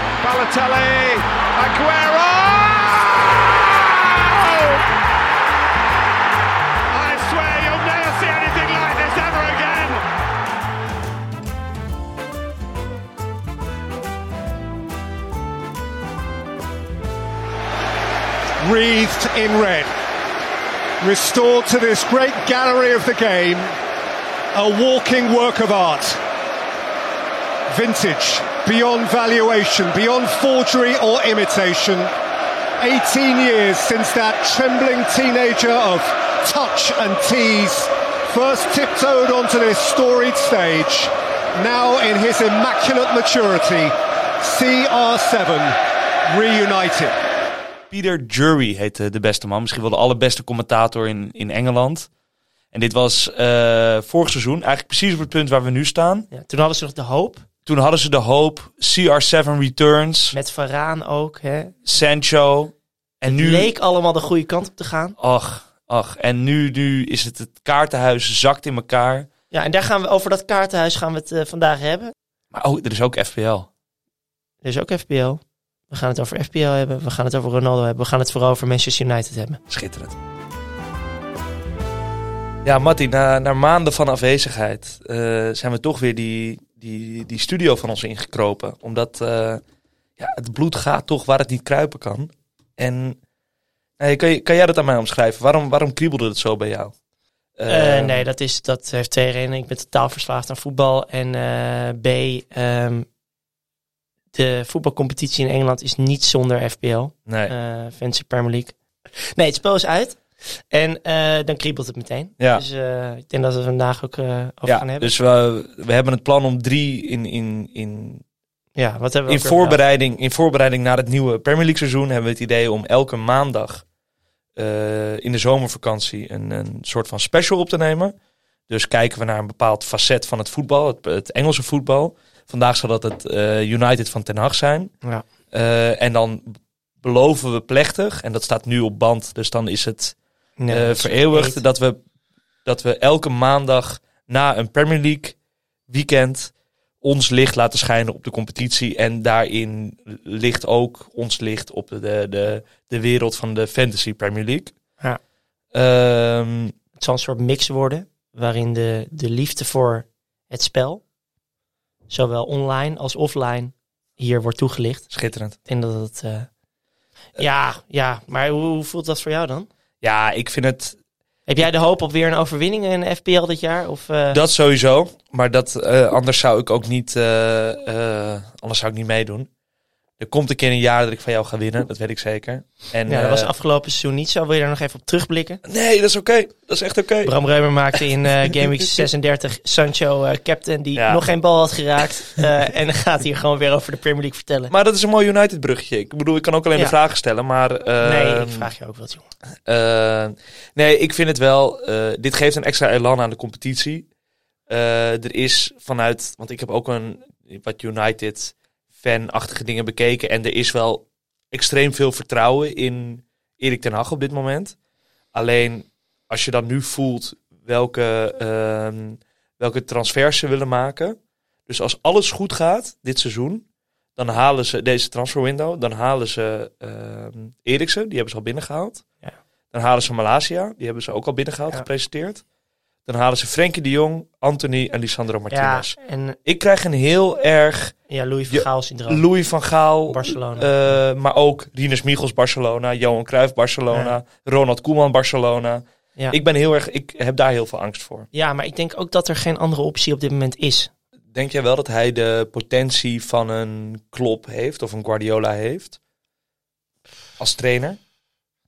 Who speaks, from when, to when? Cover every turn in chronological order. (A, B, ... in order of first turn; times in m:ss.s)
0:00.2-0:04.8 A
0:06.9-0:10.0 A
0:18.6-0:19.9 B
0:21.0-0:23.7 B
0:24.5-0:26.2 B
0:27.7-0:32.1 B
0:32.8-0:47.1 B
0:47.9-0:52.1 C
0:52.7-0:56.3 C
0:56.3-0:57.4 D
0:57.7-1:00.4 C
1:00.3-1:01.7 D
1:01.8-1:03.7 C
1:03.2-1:05.2 D
1:05.2-1:09.3 C
1:09.5-1:12.1 D
1:12.5-1:13.7 C
1:14.6-1:19.6 D
1:19.7-1:20.2 C
1:22.6-1:29.6 C
1:30.2-1:33.2 C
1:34.0-1:36.9 C
1:37.6-1:38.2 C
1:37.7-1:43.1 D
1:44.3-1:55.1 D
1:47.3-1:47.5 C
1:52.4-1:52.6 C
1:54.7-1:58.2 C
1:58.8-1:59.8 D
1:59.3-2:03.8 C
2:04.6-2:08.2 C
2:08.7-2:14.9 C
2:15.5-2:20.2 C
2:20.6-2:21.6 D
2:20.7-2:22.0 C
2:22.6-2:25.4 C
2:25.9-2:34.7 C
2:35.7-2:36.8 C
2:37.0-2:41.0 D
2:42.1-2:45.1 D
2:45.1-2:45.6 C
2:45.7-2:46.5 D
2:47.4-2:49.7 D
2:50.0-2:51.0 C
2:51.5-2:54.4 D
2:54.3-2:59.5 C
3:00.2-3:03.5 C
3:03.1-3:05.6 D
3:05.6-3:07.3 C
3:07.2-3:14.7 D
3:08.5-3:09.0 C
3:11.0-3:11.2 C
3:14.7-3:18.7 C
3:18.0-3:19.3 D
3:19.7-3:24.1 C
3:24.7-3:34.8 C
3:35.3-3:43.6 C
3:44.2-3:49.0 C
3:49.7-3:52.4 C
3:53.1-3:58.0 C
3:55.5-3:56.4 D
3:58.1-3:59.2 D
3:58.5-4:08.3 C
4:00.1-4:01.0 D
4:08.3-4:10.9 D
4:11.3-4:16.0 C
4:17.4-4:18.0 C